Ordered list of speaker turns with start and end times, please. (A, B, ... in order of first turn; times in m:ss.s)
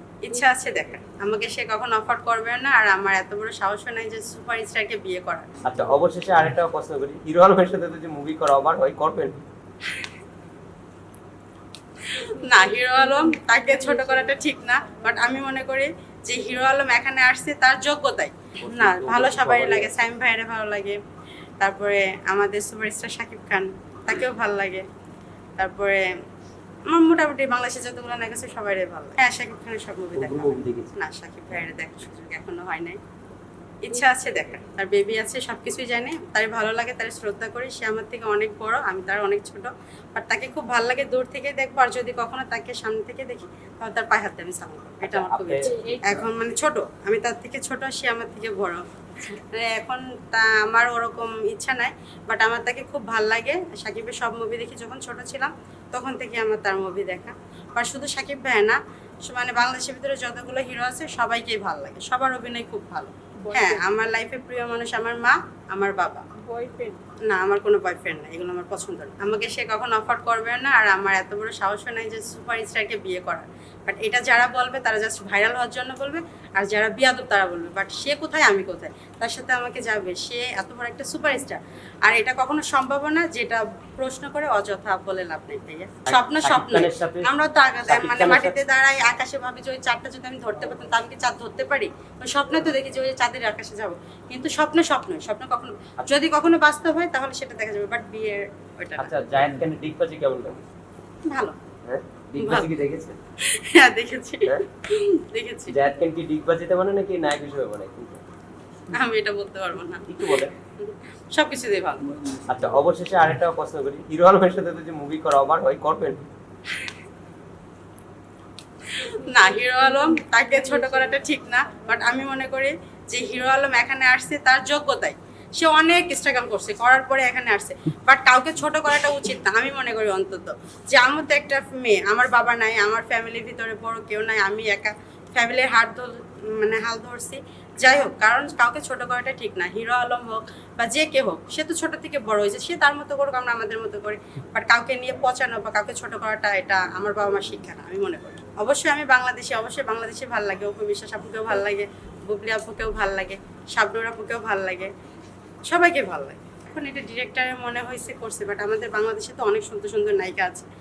0:00.2-0:05.5 A
0:05.6-0:09.4 B
0:12.1-0:21.0 A
0:12.5-0:14.4 C
0:18.6-0:20.0 B
0:21.6-0:24.9 A
0:25.6-0:26.1 A
0:26.9-0:33.0 A
0:30.2-0:31.0 B
0:33.8-1:06.3 A
0:45.0-0:46.2 B
0:45.6-0:46.2 C
1:03.4-1:03.8 C
1:06.4-1:07.0 C
1:07.3-1:39.2 A
1:26.1-1:27.3 B
1:27.9-1:28.6 B
1:39.0-1:40.6 B
1:41.3-1:41.6 A
1:41.8-1:43.2 B
1:42.4-1:42.7 A
1:43.4-1:45.8 A
1:45.7-1:48.2 B
1:48.9-1:52.0 A
1:50.1-1:50.5 B
1:52.5-1:56.2 B
1:58.9-2:34.9 A
2:35.7-2:40.7 A